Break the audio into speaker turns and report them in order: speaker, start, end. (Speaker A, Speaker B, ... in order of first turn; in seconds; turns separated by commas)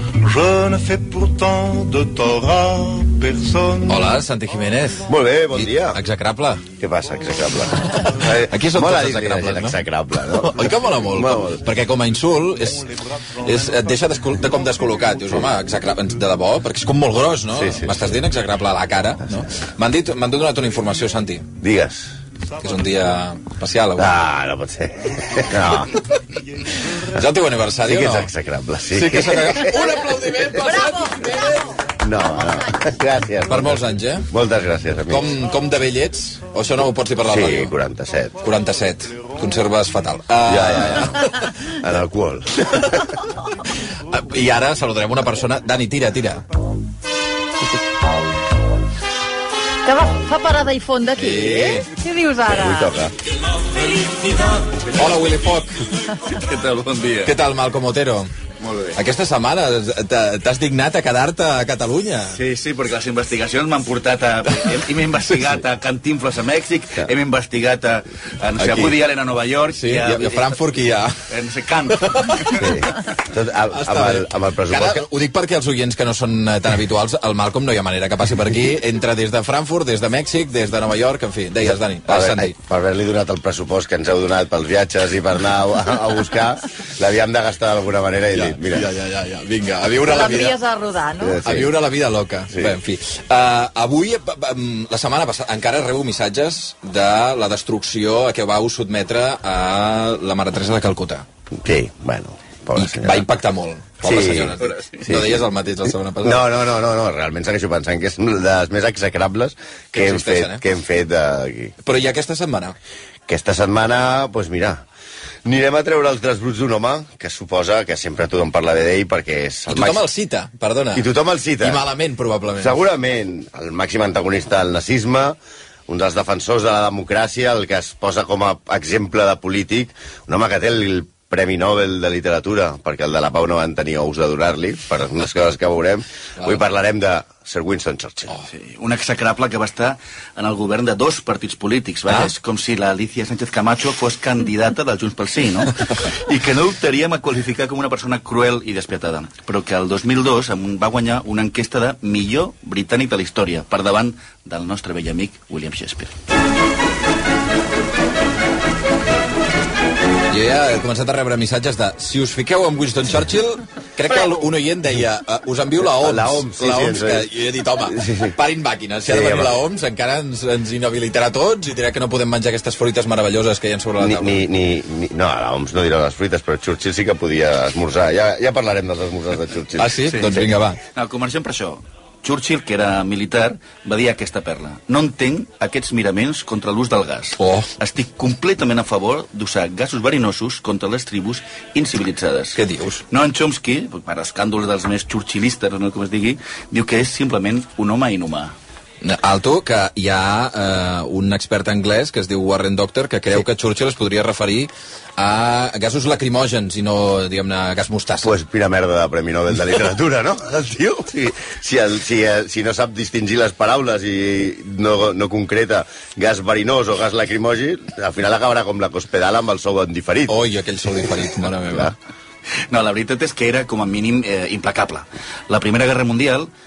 Speaker A: 0.2-4.2, Speaker B: 3.9-6.6, Speaker C: 5.1-6.0, Speaker C: 6.8-11.6, Speaker B: 7.9-12.9, Speaker A: 12.7-13.9, Speaker B: 13.4-21.5, Speaker C: 17.5-18.0, Speaker C: 21.6-22.1, Speaker B: 22.6-24.1, Speaker C: 24.0-26.0, Speaker B: 26.9-28.3, Speaker C: 27.9-30.4, Speaker B: 28.9-31.8, Speaker C: 32.0-35.3, Speaker B: 33.4-34.3, Speaker B: 35.1-37.7, Speaker C: 37.3-38.4, Speaker B: 38.4-41.5, Speaker C: 40.5-41.1, Speaker C: 41.7-43.1, Speaker B: 44.1-46.4, Speaker D: 49.9-52.9, Speaker B: 51.1-51.9, Speaker C: 52.5-53.1, Speaker B: 54.9-55.8, Speaker E: 56.3-57.3, Speaker B: 57.2-58.3, Speaker E: 58.6-59.0, Speaker B: 59.0-62.4, Speaker E: 62.3-70.6, Speaker B: 68.6-68.9, Speaker B: 69.7-71.2, Speaker E: 71.3-72.7, Speaker B: 71.9-72.3, Speaker C: 72.6-75.1, Speaker B: 73.7-82.5, Speaker C: 81.6-88.9, Speaker B: 88.3-90.6, Speaker D: 90.5-91.4, Speaker C: 91.2-91.7, Speaker B: 91.4-101.3, Speaker C: 101.6-103.3, Speaker B: 102.8-106.5, Speaker C: 104.0-105.5, Speaker E: 104.6-105.0, Speaker C: 106.2-111.7, Speaker B: 109.9-110.6, Speaker B: 111.8-112.8, Speaker C: 113.3-114.8, Speaker C: 115.5-120.0, Speaker B: 119.7-121.1, Speaker C: 121.0-121.8, Speaker B: 121.6-122.8, Speaker C: 122.6-125.4, Speaker C: 125.9-138.3, Speaker E: 138.5-156.1, Speaker B: 160.3-174.5, Speaker C: 165.9-167.3, Speaker C: 167.9-168.3, Speaker C: 169.1-169.6, Speaker C: 174.0-180.5, Speaker B: 179.8-180.8, Speaker E: 180.9-192.6, Speaker B: 187.4-187.7, Speaker B: 192.5-193.0, Speaker E: 193.1-198.5, Speaker B: 199.0-208.3, Speaker C: 208.2-220.4, Speaker B: 220.3-221.9, Speaker C: 221.7-221.9, Speaker E: 222.7-226.5